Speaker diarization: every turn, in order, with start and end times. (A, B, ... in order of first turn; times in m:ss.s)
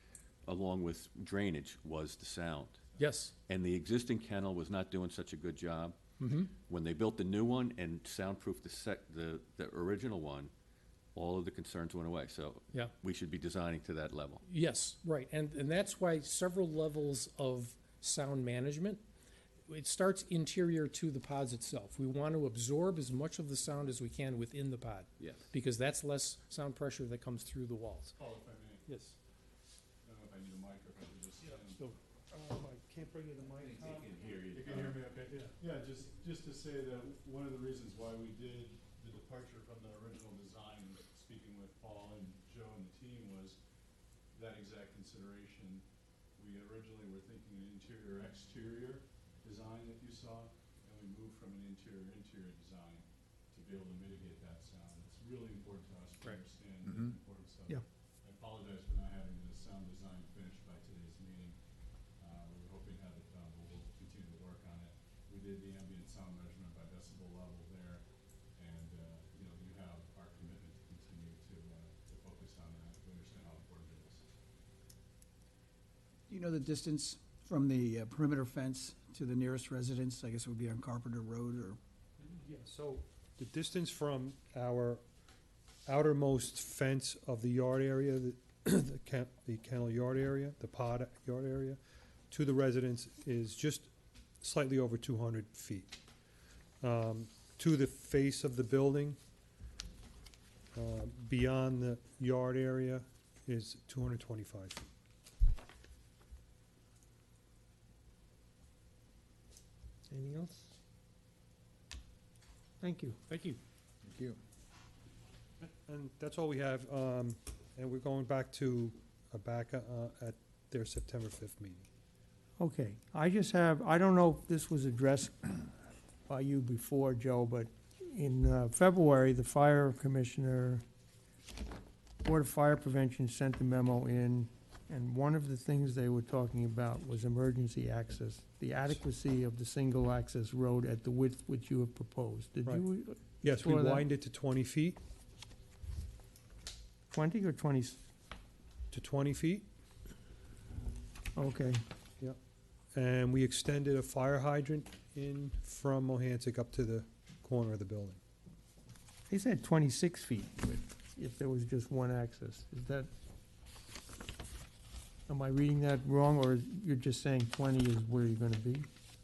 0:00.5-0:03.0 A
0:03.0-0:03.3 B
0:03.5-0:06.0 A
0:06.2-0:06.5 B
0:06.5-0:10.5 A
0:11.2-0:14.4 A
0:14.5-0:19.0 B
0:19.7-0:28.1 B
0:25.2-0:25.4 A
0:28.2-0:28.8 C
0:30.0-0:31.9 C
0:32.3-0:34.1 D
0:33.5-0:35.0 A
0:34.5-0:43.6 C
0:35.3-0:35.5 D
0:44.3-0:45.8 C
0:46.4-1:01.6 C
1:02.2-1:08.0 C
1:08.6-1:14.2 C
1:16.3-1:21.8 E
1:22.3-1:25.0 D
1:25.9-1:31.8 D
1:32.3-1:35.9 D
1:36.8-1:39.2 D
1:40.7-1:44.9 D
1:50.1-1:50.7 F
1:52.8-1:53.6 F
1:55.6-2:01.9 D
2:02.6-2:05.7 F
2:06.3-2:10.8 F
2:12.2-2:24.1 F
2:23.4-2:25.0 D
2:27.1-2:28.0 F
2:28.9-2:29.7 D
2:31.4-2:31.8 F
2:32.9-2:38.2 D
2:39.3-2:43.1 F
2:45.3-2:48.9 F